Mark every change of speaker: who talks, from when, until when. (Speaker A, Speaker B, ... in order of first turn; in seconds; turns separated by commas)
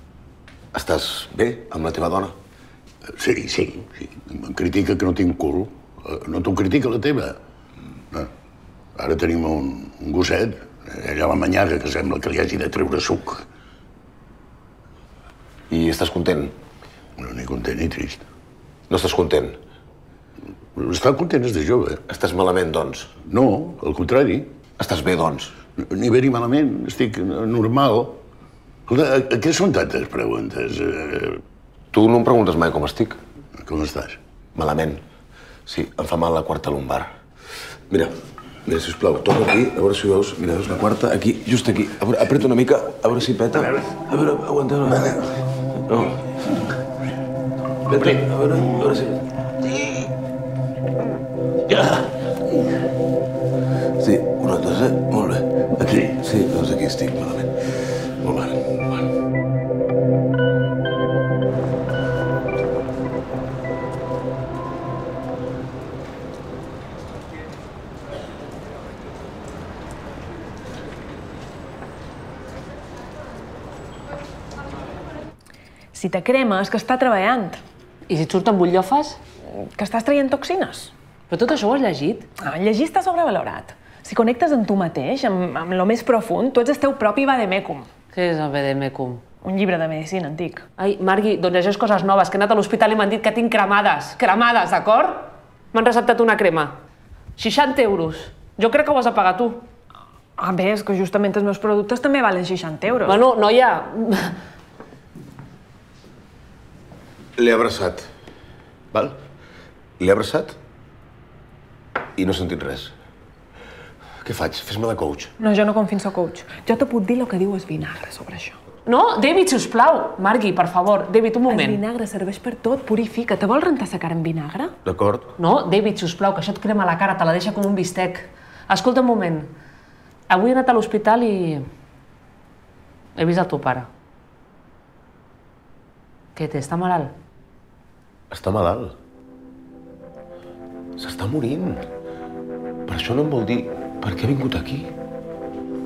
Speaker A: 0.7-2.4, Speaker B: 3.2-7.4, Speaker B: 9.0-13.4, Speaker A: 15.7-16.6, Speaker B: 17.2-18.3, Speaker A: 18.9-19.6, Speaker B: 20.8-22.0, Speaker A: 22.1-23.1, Speaker B: 23.3-24.5, Speaker A: 24.8-25.6, Speaker B: 25.8-28.2, Speaker B: 28.9-31.4, Speaker A: 31.9-33.2, Speaker B: 33.6-34.2, Speaker A: 34.5-35.0, Speaker A: 35.7-37.1, Speaker A: 38.7-45.2, Speaker A: 45.9-46.2, Speaker A: 47.9-50.1, Speaker A: 54.0-57.7, Speaker A: 58.2-59.0, Speaker C: 75.9-77.6, Speaker D: 78.1-79.2, Speaker C: 79.8-80.9, Speaker D: 81.3-82.3, Speaker C: 82.4-87.9, Speaker D: 88.1-89.2, Speaker C: 89.4-90.6, Speaker D: 90.8-96.7, Speaker D: 97.4-99.6, Speaker C: 100.4-103.2, Speaker D: 103.1-104.4, Speaker A: 107.4-108.1, Speaker A: 108.9-109.2, Speaker A: 110.0-110.6, Speaker A: 112.2-112.9, Speaker A: 114.2-115.3, Speaker C: 115.4-118.6, Speaker D: 118.9-121.8, Speaker C: 121.5-124.7, Speaker A: 124.8-125.3, Speaker D: 125.4-129.5, Speaker D: 130.3-131.6, Speaker D: 133.2-133.9, Speaker D: 136.4-137.1, Speaker A: 138.3-139.0, Speaker A: 141.0-141.8, Speaker A: 142.9-144.9